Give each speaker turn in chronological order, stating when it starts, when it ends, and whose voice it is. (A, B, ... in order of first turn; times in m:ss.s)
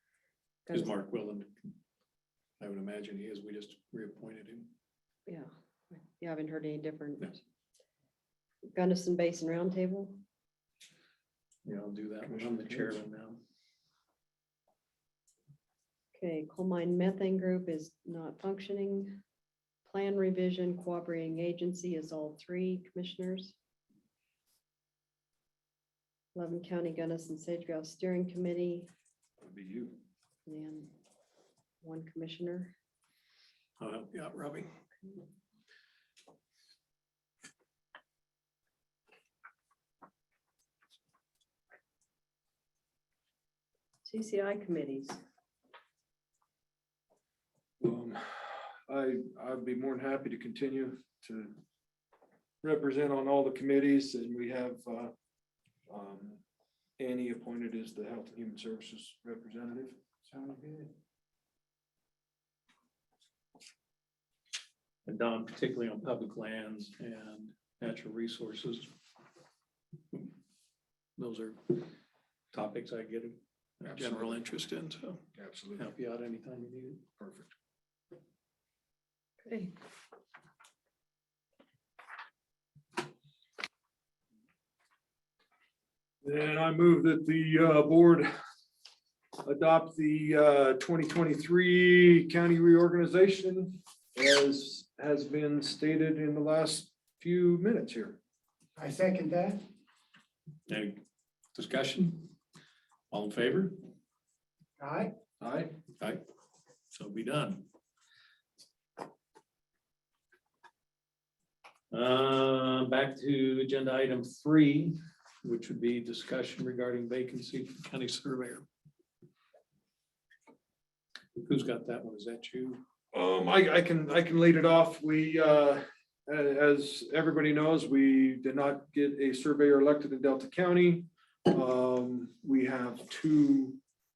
0:00.7-0:00.9 A
0:00.7-0:01.7 B
0:02.6-0:04.7 B
0:05.3-0:07.4 A
0:08.7-0:10.2 A
0:11.6-0:13.4 B
0:12.3-0:12.9 C
0:16.2-0:19.2 A
0:19.8-0:23.6 A
0:26.3-0:28.9 A
0:29.4-0:30.0 C
0:30.4-0:30.9 A
0:31.8-0:32.7 A
0:33.8-0:34.7 B
0:44.0-0:45.2 A
0:47.8-0:51.6 C
0:52.6-0:55.1 C
0:55.9-0:56.4 C
0:57.0-1:00.0 C
1:00.3-1:00.9 D
1:05.0-1:08.9 B
1:11.2-1:11.8 B
1:12.5-1:15.2 B
1:13.8-1:14.4 C
1:15.3-1:15.9 C
1:15.8-1:17.0 B
1:17.2-1:17.5 C
1:19.4-1:19.7 A
1:26.2-1:28.3 C
1:29.4-1:38.2 C
1:38.8-1:39.6 D
1:40.7-1:41.0 B
1:41.5-1:42.3 B
1:43.1-1:43.8 B
1:44.8-1:45.1 D
1:45.4-1:45.7 C
1:46.9-1:47.6 B
1:51.9-1:58.6 B
2:01.4-2:02.8 B
2:03.1-2:13.8 C